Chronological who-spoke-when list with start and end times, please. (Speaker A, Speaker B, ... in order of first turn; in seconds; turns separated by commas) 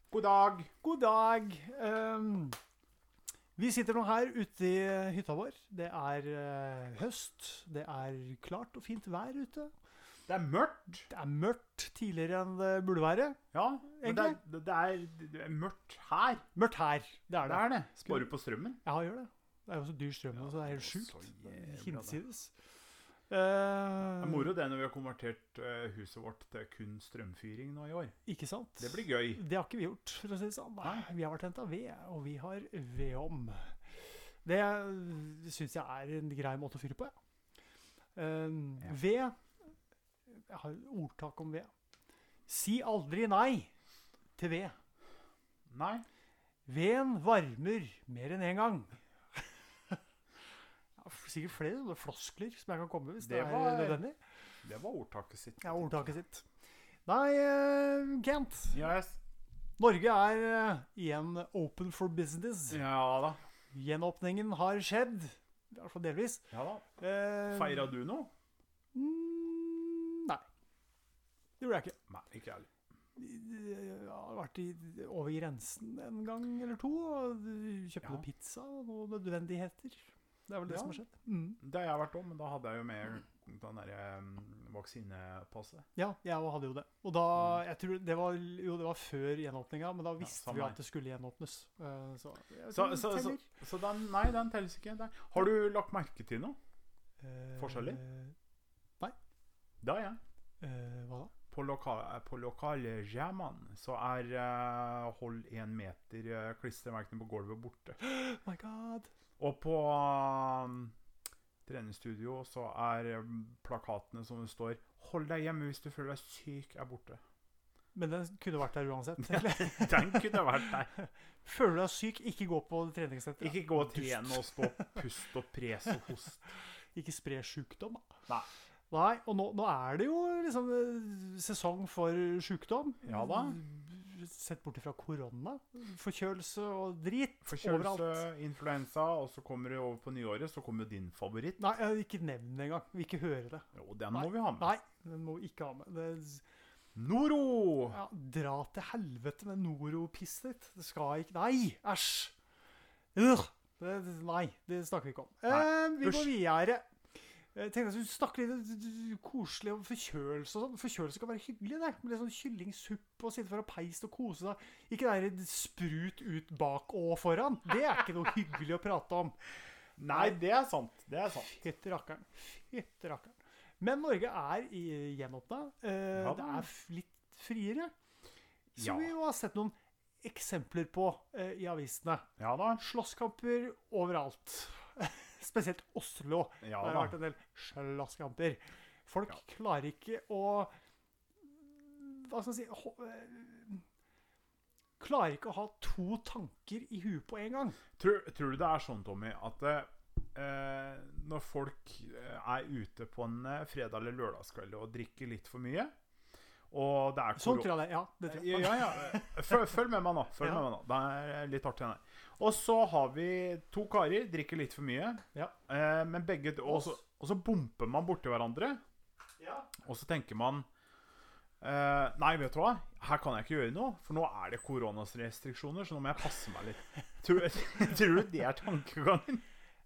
Speaker A: 0.1-0.7, Speaker B: 0.8-2.6, Speaker B: 3.6-9.7, Speaker A: 10.3-11.1, Speaker B: 11.1-14.4, Speaker A: 13.5-16.4, Speaker B: 16.5-18.3, Speaker A: 17.4-18.8, Speaker B: 18.8-22.5, Speaker A: 20.3-22.2, Speaker B: 23.3-24.5, Speaker A: 24.2-28.1, Speaker B: 28.2-33.8, Speaker A: 28.8-29.4, Speaker B: 34.4-37.1, Speaker B: 38.1-39.4, Speaker B: 40.3-41.7, Speaker B: 42.5-43.7, Speaker B: 44.4-44.8, Speaker A: 45.7-46.1, Speaker B: 46.7-50.0, Speaker B: 51.0-54.2, Speaker A: 53.2-54.0, Speaker A: 54.6-56.0, Speaker B: 55.6-56.4, Speaker B: 57.1-58.8, Speaker A: 58.7-59.2, Speaker B: 59.8-62.8, Speaker A: 62.7-63.4, Speaker B: 63.7-66.4, Speaker A: 66.5-66.8, Speaker B: 67.0-67.9, Speaker A: 67.5-68.3, Speaker B: 68.9-70.4, Speaker B: 71.6-72.0, Speaker A: 72.1-72.7, Speaker B: 73.2-81.6, Speaker A: 80.7-81.0, Speaker A: 81.6-85.8, Speaker B: 86.0-93.5, Speaker A: 90.2-90.8, Speaker A: 92.7-96.6, Speaker B: 97.2-98.3, Speaker A: 97.6-98.0, Speaker A: 99.8-100.2, Speaker B: 100.6-101.3, Speaker A: 101.5-108.0, Speaker B: 108.0-109.1, Speaker A: 109.4-110.9, Speaker A: 111.7-117.2, Speaker B: 117.9-125.0, Speaker A: 119.2-120.9, Speaker A: 123.4-126.4, Speaker B: 126.9-128.1, Speaker B: 128.9-138.2, Speaker A: 133.0-133.6, Speaker A: 137.4-141.6, Speaker B: 141.6-146.4, Speaker A: 143.7-144.7, Speaker A: 146.9-148.0, Speaker B: 147.9-152.3, Speaker B: 153.1-156.8, Speaker A: 155.5-156.3, Speaker B: 157.5-169.4, Speaker A: 170.0-171.6, Speaker B: 170.1-170.3, Speaker B: 171.3-177.9, Speaker A: 176.2-176.7, Speaker B: 178.7-190.7, Speaker A: 178.8-179.1, Speaker A: 182.4-182.8, Speaker A: 186.6-187.2, Speaker B: 191.6-193.8, Speaker B: 195.0-197.8, Speaker A: 198.0-205.9, Speaker A: 206.7-207.7, Speaker B: 207.3-209.8, Speaker A: 208.3-218.8, Speaker B: 219.4-219.7, Speaker A: 219.8-220.7, Speaker A: 221.6-229.4